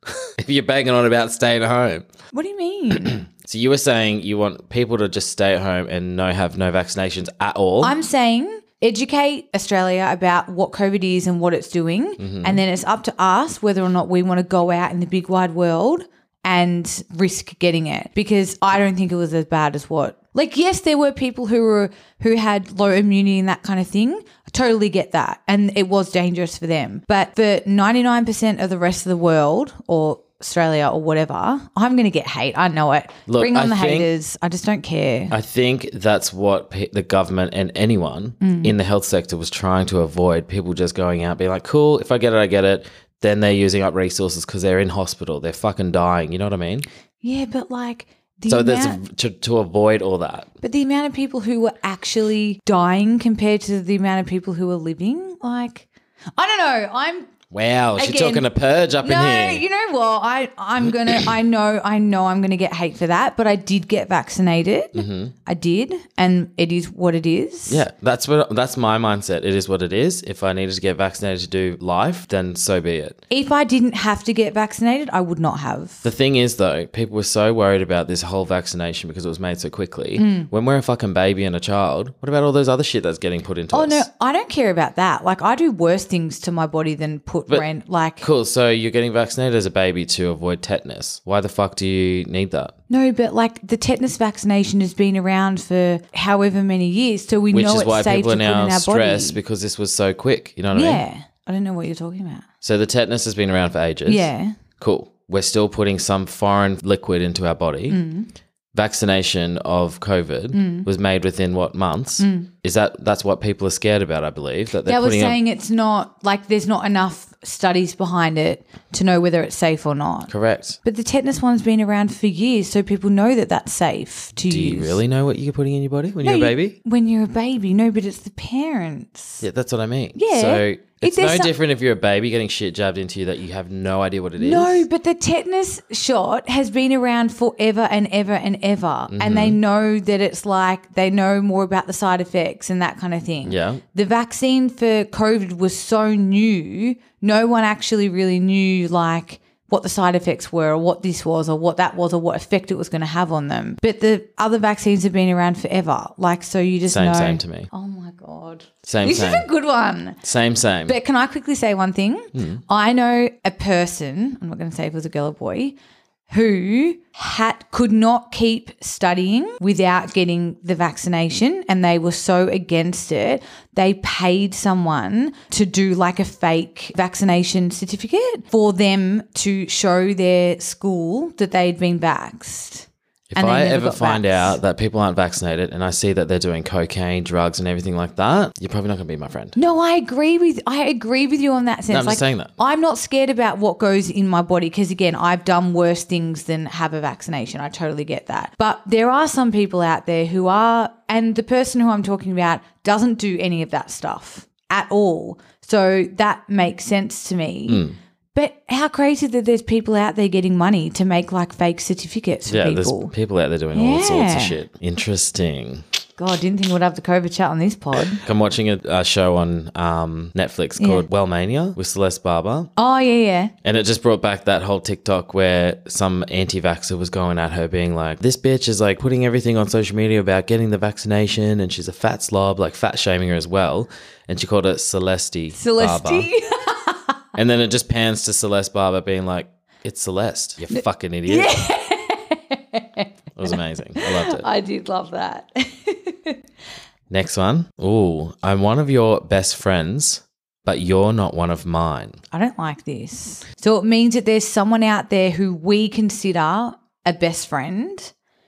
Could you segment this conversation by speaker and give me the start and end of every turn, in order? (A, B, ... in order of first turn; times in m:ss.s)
0:00.2-0:02.1 A
0:02.3-0:03.2 B
0:03.0-0:07.9 A
0:07.8-0:35.3 B
0:12.2-0:12.6 A
0:33.3-0:34.1 A
0:35.3-0:46.8 A
0:38.4-0:38.7 B
0:47.2-0:49.0 B
0:48.5-0:50.5 A
0:50.6-0:57.3 B
0:57.5-0:59.6 A
0:58.0-0:58.5 B
0:59.0-1:07.8 B
1:04.9-1:05.3 A
1:07.7-1:13.2 A
1:13.3-1:16.0 B
1:16.0-1:24.0 A
1:20.2-1:20.5 B
1:23.7-1:28.2 B
1:28.2-1:32.7 A
1:32.9-1:39.4 B
1:37.5-1:41.0 A
1:40.7-1:42.4 B
1:42.6-1:48.0 A
1:44.0-1:44.6 B
1:47.9-1:48.3 B
1:48.7-1:55.4 A
1:50.5-1:50.9 B
1:52.2-1:52.5 B
1:54.8-2:00.3 B
2:00.3-2:00.8 A
2:00.8-2:05.0 B
2:04.5-2:06.8 A
2:06.2-2:09.4 B
2:09.4-2:14.8 A
2:10.1-2:11.5 B
2:14.4-2:40.2 B
2:19.1-2:19.6 A
2:23.4-2:23.8 A
2:36.9-2:37.7 A
2:38.8-2:39.5 A
2:40.2-2:41.0 A
2:40.8-2:45.8 B
2:42.3-2:42.6 A
2:46.3-3:04.6 B
3:03.3-3:09.6 A
3:09.6-3:33.1 B
3:11.9-3:12.5 A
3:27.7-3:28.0 A
3:32.5-3:35.8 A
3:33.7-3:34.6 B
3:36.2-3:38.2 B
3:38.2-3:42.7 A
3:40.8-3:41.0 B
3:42.8-3:43.5 B
3:43.6-3:56.3 A
3:55.5-3:57.1 B
3:57.3-4:01.5 A
4:00.7-4:06.4 B
4:03.4-4:04.4 A
4:07.1-4:12.2 A
4:12.3-4:18.1 B